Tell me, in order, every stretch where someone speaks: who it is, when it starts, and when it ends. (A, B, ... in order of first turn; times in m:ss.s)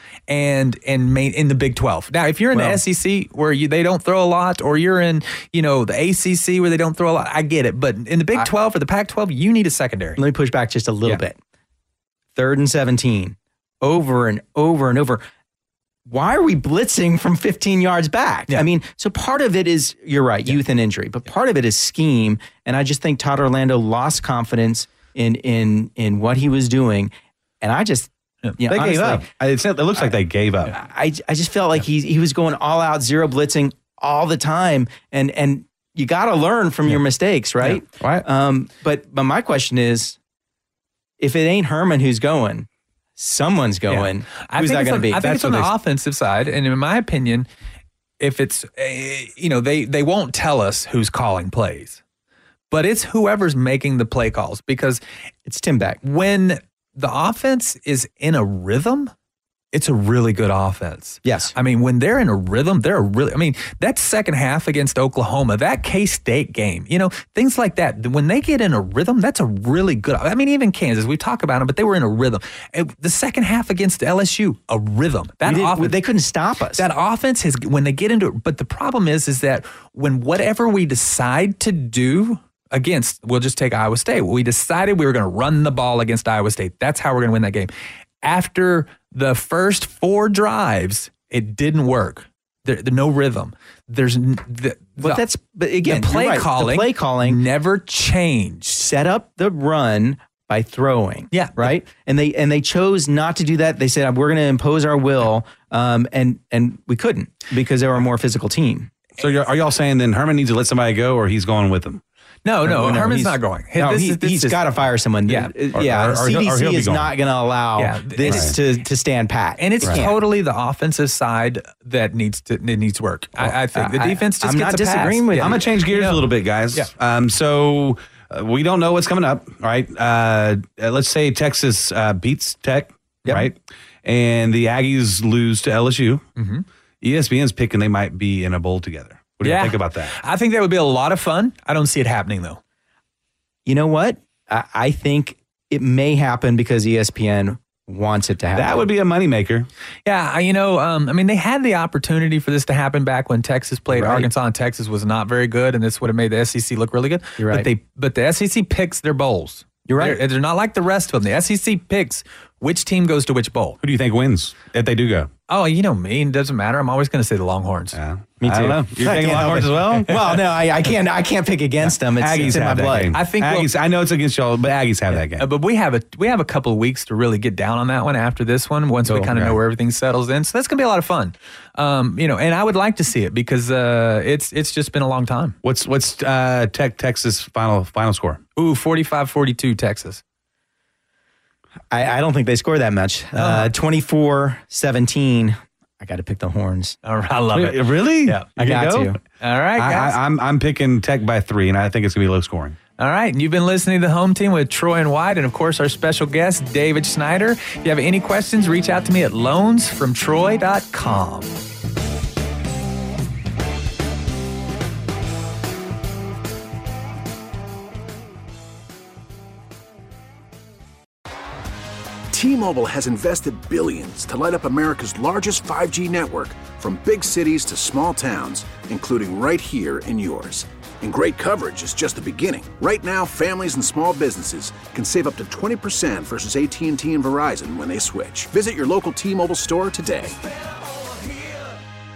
0:00.3-0:10.2 A
0:02.5-0:02.8 B
0:10.2-0:11.4 B
0:12.4-0:15.2 B
0:16.1-0:29.2 B
0:28.7-0:30.8 C
0:30.7-0:40.2 B
0:38.0-0:38.2 C
0:41.2-0:45.7 B
0:43.9-0:47.5 A
0:48.2-0:52.0 A
0:52.7-0:55.0 A
0:55.4-0:56.0 B
0:56.0-0:59.1 A
0:59.7-1:16.0 A
1:01.2-1:01.5 B
1:15.4-1:16.9 B
1:16.8-1:27.7 A
1:28.2-1:35.2 A
1:35.0-1:37.4 B
1:35.8-1:38.8 A
1:38.8-1:48.9 B
1:41.3-1:41.7 A
1:49.2-1:52.0 C
1:52.4-1:54.6 A
1:52.6-2:00.2 B
1:55.7-1:57.1 C
1:57.8-1:58.6 A
1:58.3-1:58.5 C
1:59.6-2:06.9 A
2:03.4-2:05.7 B
2:05.3-2:16.2 C
2:16.4-2:16.6 A
2:17.0-2:20.1 C
2:19.4-2:22.6 A
2:23.6-2:28.8 B
2:28.5-2:29.7 C
2:30.0-2:43.8 A
2:33.9-2:34.3 B
2:37.4-2:37.7 B
2:39.9-2:40.2 B
2:43.8-2:45.3 C
2:45.5-2:48.0 A
2:47.9-2:50.2 C
2:48.4-2:53.1 B
2:52.1-2:55.5 C
2:53.1-2:53.7 A
2:55.1-3:05.6 A
2:59.1-2:59.6 C
3:05.6-3:08.4 C
3:08.6-3:10.2 A
3:11.9-3:17.0 B
3:13.3-3:13.7 A
3:17.0-3:18.5 A
3:17.5-3:19.1 C
3:18.6-3:19.2 B
3:19.4-3:20.2 A
3:19.8-3:22.8 C
3:23.0-3:31.5 A
3:42.3-4:00.4 D